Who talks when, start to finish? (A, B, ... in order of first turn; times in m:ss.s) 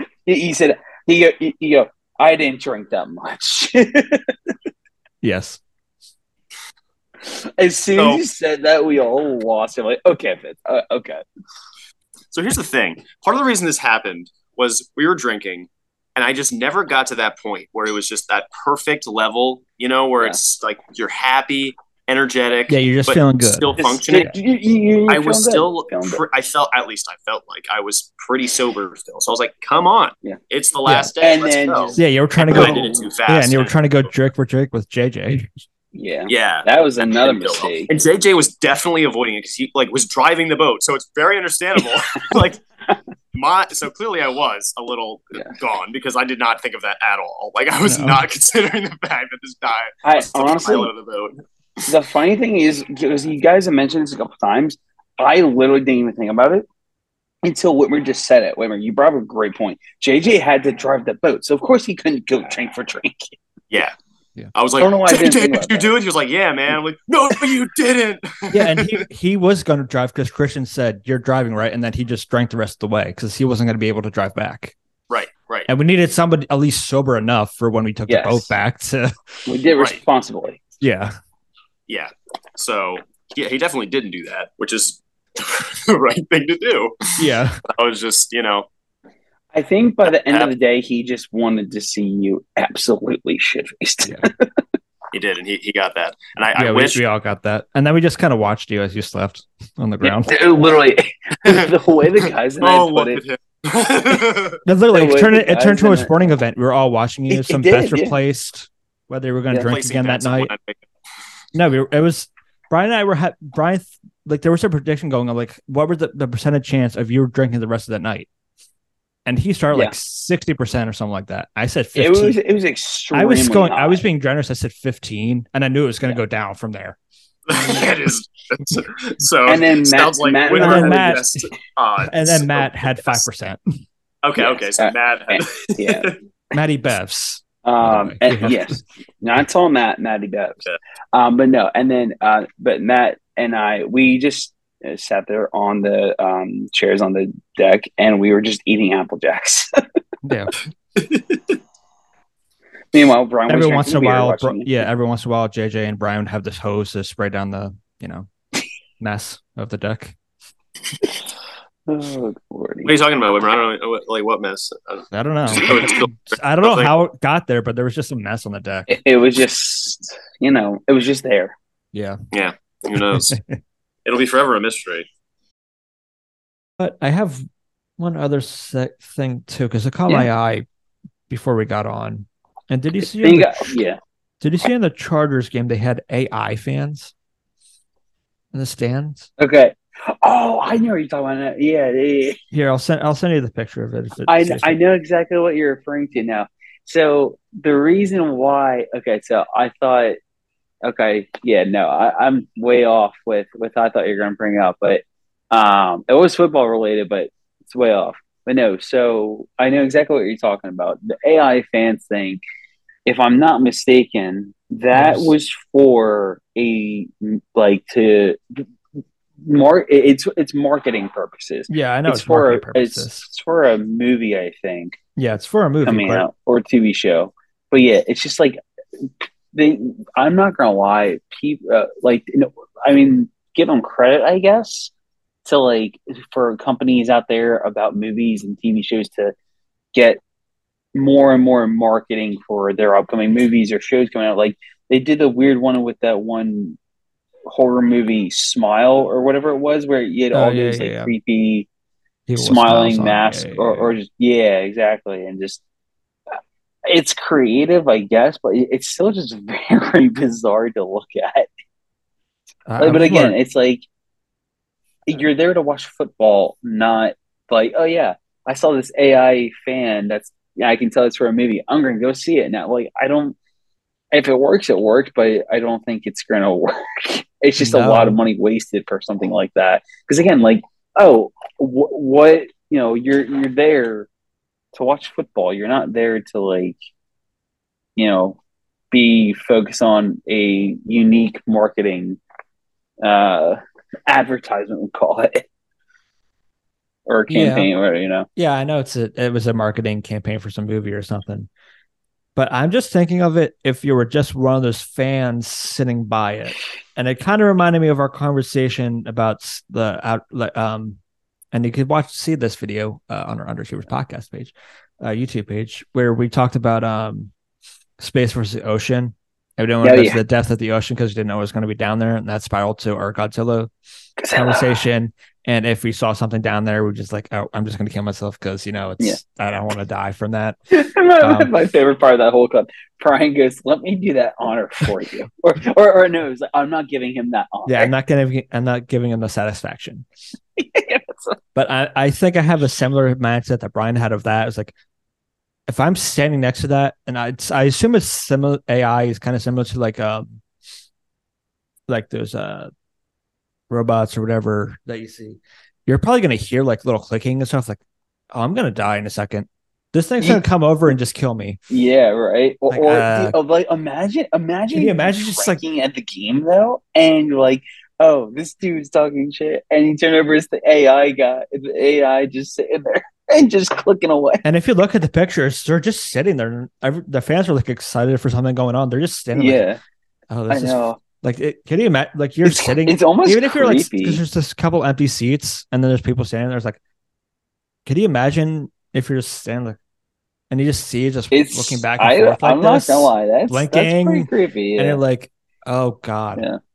0:00.3-0:04.6 A
0:05.2-0:05.6 B
0:07.2-0:11.2 A
0:08.0-0:08.2 C
0:12.3-0:24.4 C
0:22.7-0:24.4 B
0:23.8-0:26.2 A
0:25.1-0:34.1 C
0:31.2-0:33.1 A
0:32.0-0:35.6 B
0:35.9-0:37.9 A
0:36.3-0:42.6 C
0:43.3-0:51.4 C
0:47.8-0:48.2 B
0:50.0-0:50.9 A
0:51.9-0:56.6 A
0:57.4-1:03.4 A
1:04.5-1:09.0 C
1:04.8-1:05.9 A
1:08.5-1:14.7 B
1:15.1-1:15.7 C
1:15.7-1:19.2 B
1:18.1-1:18.5 A
1:19.5-1:20.6 A
1:20.8-1:21.1 B
1:21.9-1:28.7 C
1:27.2-1:27.6 B
1:29.5-1:34.5 A
1:30.2-1:30.5 C
1:35.1-1:37.0 C
1:36.6-1:40.4 B
1:40.0-1:43.2 A
1:42.6-1:44.6 C
1:44.7-1:50.5 B
1:44.9-1:46.4 A
1:47.3-1:48.2 A
1:49.6-1:50.8 C
1:51.5-1:58.3 B
1:59.3-2:02.4 B
2:02.0-2:04.0 A
2:03.1-2:07.0 B
2:07.5-2:13.2 C
2:09.5-2:11.2 A
2:10.5-2:11.4 B
2:12.0-2:13.6 B
2:14.2-2:16.2 C
2:14.4-2:16.2 A
2:16.5-2:18.8 B
2:17.6-2:29.7 A
2:30.2-2:30.7 B
2:31.0-2:31.6 C
2:32.9-2:34.9 A
2:33.5-2:38.3 B
2:39.0-2:40.2 B
2:41.9-2:42.9 A
2:42.8-2:46.9 C
2:45.1-2:49.0 B
2:48.9-2:51.6 A
2:51.9-2:52.2 B
2:52.3-2:53.4 C
2:53.1-2:53.6 B
2:54.1-2:55.1 C
2:56.8-2:57.4 B
2:58.0-3:00.7 B
3:01.3-3:03.7 B
3:03.0-3:04.0 A
3:04.4-3:07.1 B
3:08.5-3:09.3 B
3:09.4-3:12.4 A
3:12.5-3:14.8 B
3:14.3-3:20.2 A
3:20.8-3:32.4 A
3:33.1-3:38.7 A
3:34.9-3:35.3 B
3:39.4-3:45.0 A
3:41.7-3:43.3 B
3:45.2-3:46.3 B
3:45.8-3:54.9 A
3:55.4-3:59.4 A
3:59.9-4:00.2 A
4:01.0-4:06.8 A
4:07.5-4:11.7 A
4:10.3-4:11.1 B
4:12.3-4:13.9 B
4:12.4-4:15.6 A
4:16.9-4:21.5 A
4:22.7-4:23.4 B
4:22.8-4:23.8 A
4:25.1-4:33.4 A
4:34.1-4:44.1 A
4:37.6-4:38.2 B
4:44.7-4:46.8 A
4:48.0-4:48.4 A
4:48.9-4:52.2 A
4:53.0-4:55.4 A
4:57.1-4:58.3 A
4:57.3-4:57.7 B
4:58.4-5:01.5 B
5:02.4-5:11.0 B
5:11.5-5:17.3 B
5:18.0-5:23.7 B
5:19.8-5:20.2 A
5:24.2-5:24.8 A
5:24.3-5:30.6 B
5:30.7-5:37.9 A
5:31.2-5:31.5 B
5:37.7-5:40.1 B
5:40.6-5:41.4 A
5:41.6-5:44.7 B
5:45.7-5:50.4 B
5:51.9-5:52.7 B
5:53.7-5:57.8 B
5:58.3-6:01.6 B
6:01.7-6:14.4 A
6:02.7-6:03.4 B
6:04.7-6:05.6 B
6:14.4-6:19.6 B
6:19.3-6:19.8 A
6:20.3-6:26.8 B
6:20.5-6:21.0 A
6:22.4-6:24.2 A
6:27.9-6:29.8 B
6:30.5-6:36.4 B
6:31.3-6:35.0 A